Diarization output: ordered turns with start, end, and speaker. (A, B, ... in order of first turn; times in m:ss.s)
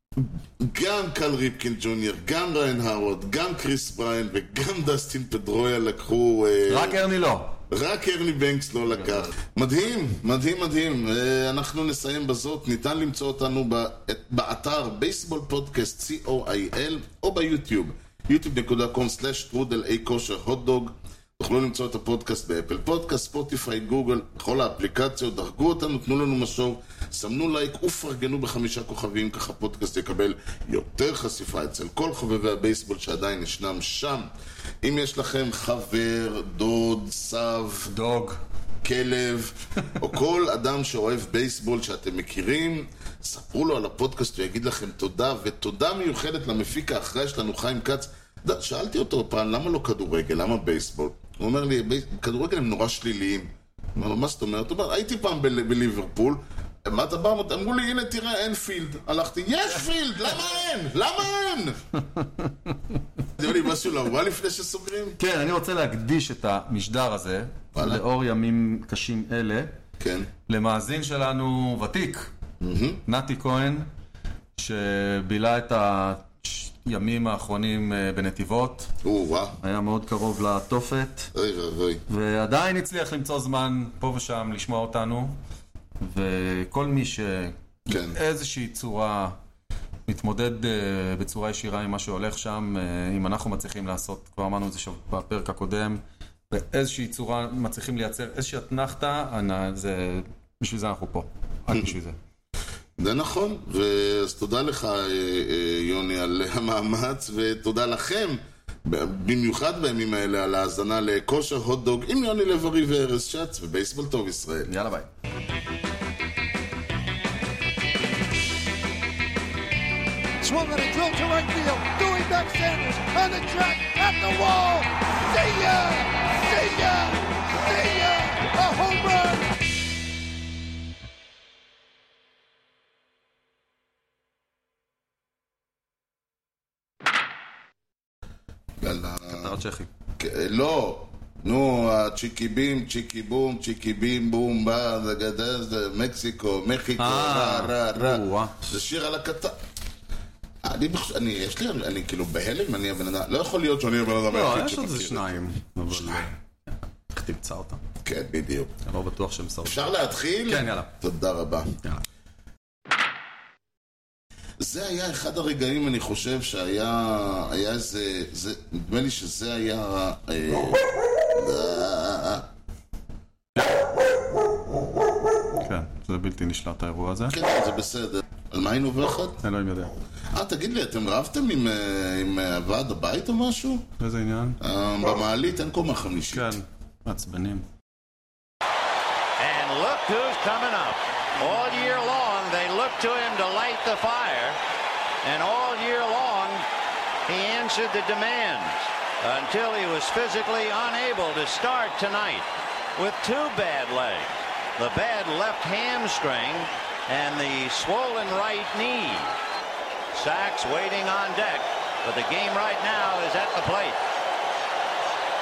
0:00.2-0:07.0 A
0:06.7-0:07.6 B
0:07.7-0:34.3 A
0:08.9-0:09.3 B
0:34.8-0:37.9 A
0:37.9-0:38.4 B
0:38.8-1:01.8 A
1:02.0-1:03.4 B
1:03.4-1:05.2 A
1:05.2-1:09.7 B
1:07.8-1:08.0 A
1:10.0-1:10.3 A
1:10.5-1:12.3 B
1:12.6-1:13.0 A
1:13.1-1:13.9 B
1:14.6-1:18.9 B
1:19.0-1:19.6 A
1:19.6-1:21.3 B
1:21.3-1:22.0 A
1:22.1-1:25.4 B
1:26.0-1:29.4 B
1:27.9-1:28.2 A
1:30.1-1:42.2 B
1:43.0-1:54.7 A
1:54.7-1:55.1 B
2:00.4-2:09.5 C
2:18.8-2:19.5 A
2:19.3-2:19.9 B
2:20.2-2:29.6 A
2:27.0-2:28.6 B
2:30.6-2:36.3 A
2:34.3-2:36.4 B
2:37.1-2:37.8 B
2:38.0-2:38.8 A
2:38.8-2:39.9 B
2:39.6-2:41.8 A
2:40.5-2:40.9 B
2:44.6-2:52.5 A
2:53.6-2:53.9 B
2:55.6-2:57.4 B
2:57.3-2:59.4 A
2:59.4-2:59.9 B
3:00.3-3:03.8 A
3:04.0-3:04.6 B
3:04.6-3:06.6 A
3:06.3-3:07.7 B
3:09.4-3:14.6 D
3:15.2-3:16.6 D
3:17.3-3:29.3 D
3:30.1-3:34.0 D